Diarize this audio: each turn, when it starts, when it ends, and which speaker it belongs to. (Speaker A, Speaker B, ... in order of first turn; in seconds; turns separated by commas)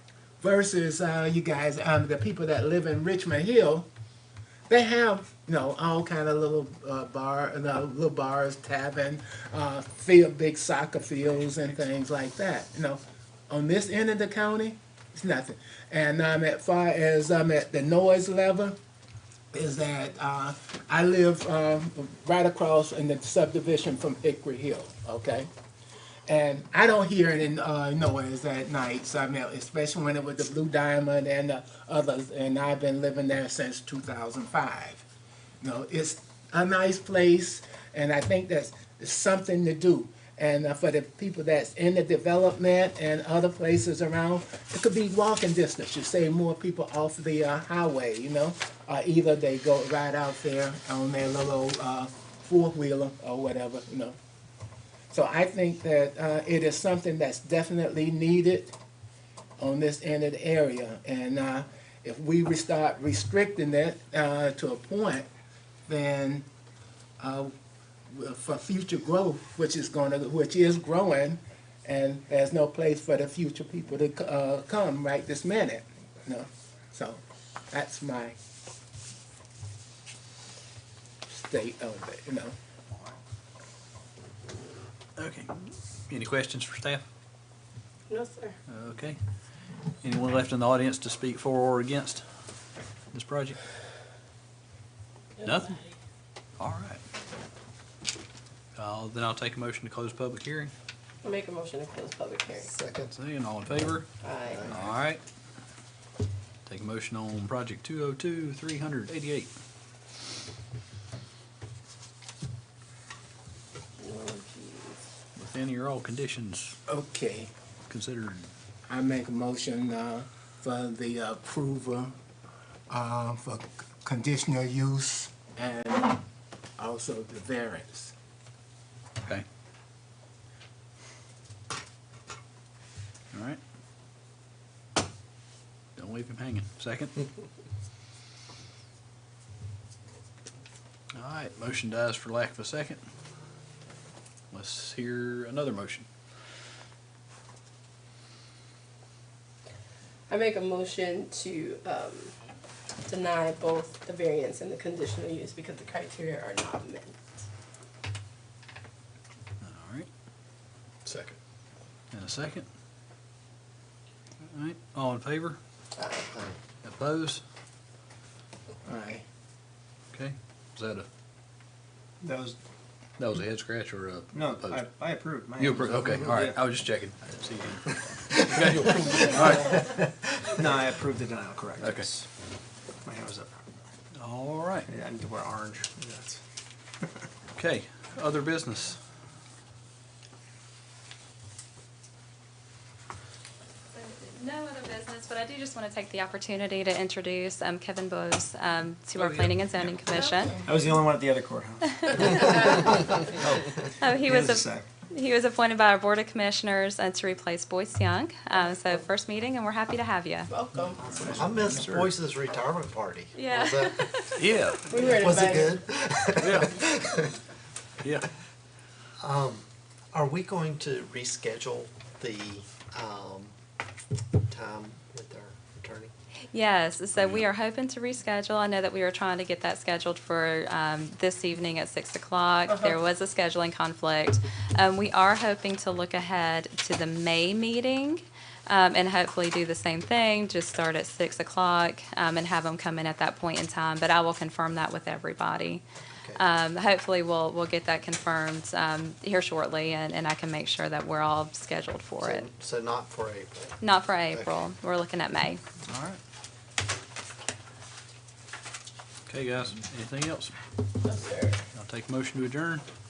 Speaker A: 0.4-3.9, Speaker A: 4.7-18.8, Speaker A: 19.5-25.5, Speaker A: 26.3-35.0, Speaker A: 35.6-54.2, Speaker A: 55.1-58.7, Speaker A: 59.6-65.3, Speaker A: 65.9-66.5, Speaker A: 67.2-67.5, Speaker A: 68.1-77.2, Speaker A: 77.7-78.3, Speaker A: 81.3-82.5, Speaker B: 85.2-87.0, Speaker C: 88.1-88.5, Speaker B: 88.7-89.2, Speaker B: 90.0-92.2, Speaker B: 93.1-93.6, Speaker C: 95.4-95.9, Speaker B: 95.4-95.7, Speaker B: 96.6-97.0, Speaker B: 98.8-100.7, Speaker C: 101.2-102.7, Speaker D: 102.6-103.1, Speaker B: 103.1-104.1, Speaker C: 104.2-104.7, Speaker D: 104.5-104.9, Speaker B: 104.6-105.2, Speaker B: 106.7-109.5, Speaker C: 114.0-115.0, Speaker B: 115.3-116.8, Speaker A: 116.9-117.5, Speaker B: 117.9-118.5, Speaker A: 118.9-122.1, Speaker A: 122.9-126.2, Speaker A: 126.8-128.1, Speaker B: 133.3-133.6, Speaker B: 136.0-137.2, Speaker B: 141.1-143.0, Speaker B: 144.5-146.1, Speaker C: 150.3-152.3, Speaker C: 153.0-157.4, Speaker B: 159.6-160.1, Speaker D: 161.0-161.4, Speaker B: 162.1-162.7, Speaker B: 164.4-165.6, Speaker C: 166.0-166.2, Speaker B: 166.8-167.4, Speaker A: 168.8-169.2, Speaker B: 170.1-171.1, Speaker E: 172.2-172.6, Speaker B: 173.2-174.9, Speaker E: 174.3-176.7, Speaker B: 175.5-180.0, Speaker D: 178.7-180.2, Speaker E: 180.4-182.3, Speaker B: 181.8-182.1, Speaker E: 183.0-183.8, Speaker B: 184.1-184.9, Speaker E: 184.9-186.4, Speaker B: 187.5-189.0, Speaker F: 193.9-200.6, Speaker B: 199.2-199.9, Speaker E: 200.6-204.8, Speaker F: 202.0-202.6, Speaker D: 202.5-203.1, Speaker F: 204.0-210.5, Speaker C: 210.5-211.2, Speaker D: 211.0-217.4, Speaker B: 211.0-211.9, Speaker E: 211.2-212.1, Speaker F: 213.3-214.4, Speaker B: 214.3-215.0, Speaker C: 214.9-215.8, Speaker B: 216.4-216.8, Speaker B: 218.0-218.3, Speaker D: 219.2-223.5, Speaker D: 224.4-226.1, Speaker F: 226.5-245.8, Speaker D: 227.2-227.4, Speaker F: 246.3-252.5, Speaker D: 252.2-254.6, Speaker F: 253.8-255.6, Speaker B: 255.8-256.2, Speaker B: 259.3-260.5, Speaker C: 261.0-261.6, Speaker B: 261.7-262.8